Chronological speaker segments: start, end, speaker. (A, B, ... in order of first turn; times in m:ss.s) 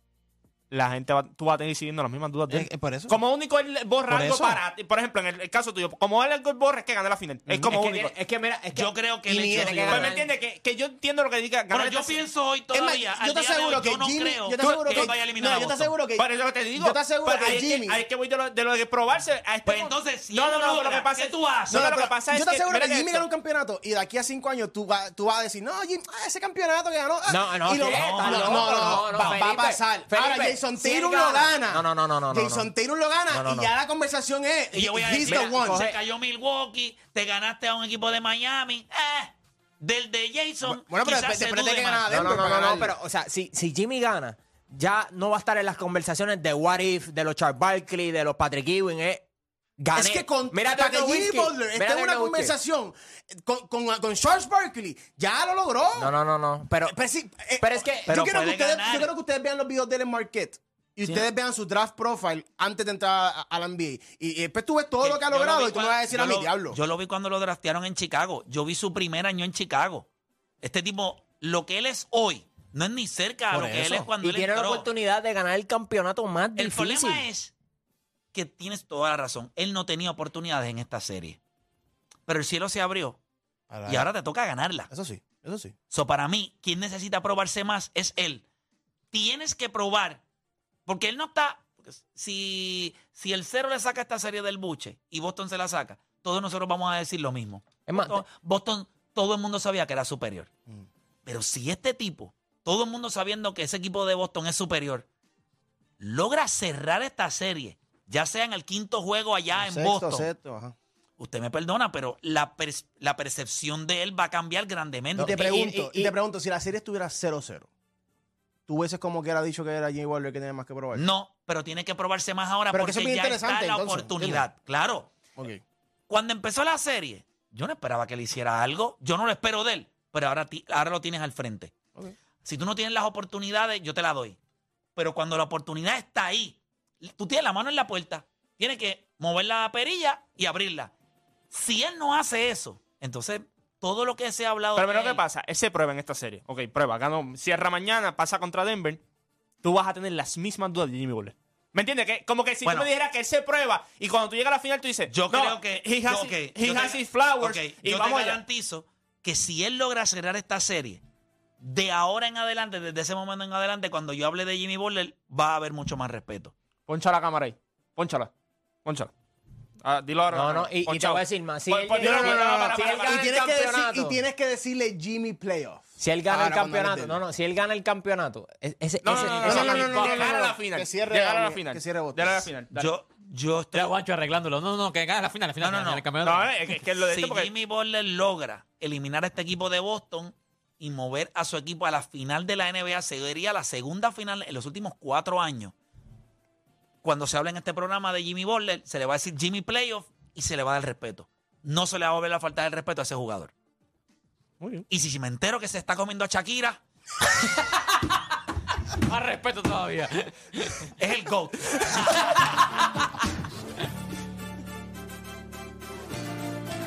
0:00.7-0:08.1 A
0:02.5-0:03.2 B
0:04.1-0:04.6 B
0:07.5-0:07.8 B
0:07.7-0:10.3 C
0:08.7-0:10.1 D
0:09.2-0:10.0 B
0:09.8-0:12.2 A
0:11.7-0:15.9 D
0:12.7-0:18.0 B
0:14.6-0:15.1 A
0:16.2-0:23.3 A
0:19.6-0:21.9 D
0:21.7-0:35.8 B
0:27.3-0:32.7 C
0:27.9-0:29.4 D
0:33.3-0:33.7 C
0:34.7-0:42.1 D
0:35.2-0:36.0 C
0:40.6-0:42.9 B
0:42.1-0:49.2 C
0:49.8-0:52.6 C
0:49.9-0:56.1 B
0:56.0-0:57.0 C
0:56.8-1:06.8 B
0:57.6-0:58.2 C
0:58.1-0:59.1 D
1:05.0-1:10.1 D
1:10.6-1:14.9 D
1:13.5-1:14.1 B
1:13.5-1:17.2 C
1:16.6-1:17.5 D
1:18.3-1:21.4 D
1:22.3-1:23.2 D
1:23.7-1:24.1 B
1:23.8-1:24.9 D
1:24.9-1:25.7 B
1:25.9-1:28.4 D
1:29.1-1:30.2 D
1:30.9-1:40.5 D
1:37.9-1:38.2 C
1:41.2-1:45.0 D
1:46.0-1:50.3 D
1:49.5-1:50.7 B
1:51.2-1:55.5 D
1:55.2-1:56.1 C
1:55.2-1:57.7 B
1:58.7-2:01.0 B
2:00.9-2:05.1 D
2:02.7-2:04.4 B
2:05.4-2:05.6 B
2:06.1-2:11.7 D
2:12.4-2:14.4 D
2:15.0-2:20.9 D
2:21.5-2:25.2 D
2:24.7-2:29.0 A
2:29.6-2:38.4 A
2:32.6-2:32.9 D
2:35.1-2:41.0 D
2:41.6-2:46.5 D
2:46.9-2:48.3 A
2:48.8-2:49.1 A
2:49.8-2:53.3 A
2:50.3-2:54.2 C
2:52.0-2:57.2 B
2:56.0-3:00.3 C
2:59.0-3:02.8 A
2:59.2-3:02.5 B
3:02.7-3:03.9 D
3:03.7-3:06.8 E
3:05.6-3:06.1 D
3:06.2-3:07.5 A
3:07.1-3:15.7 D
3:17.0-3:23.5 D
3:24.9-3:26.8 D
3:29.0-3:30.8 E
3:31.0-3:32.4 D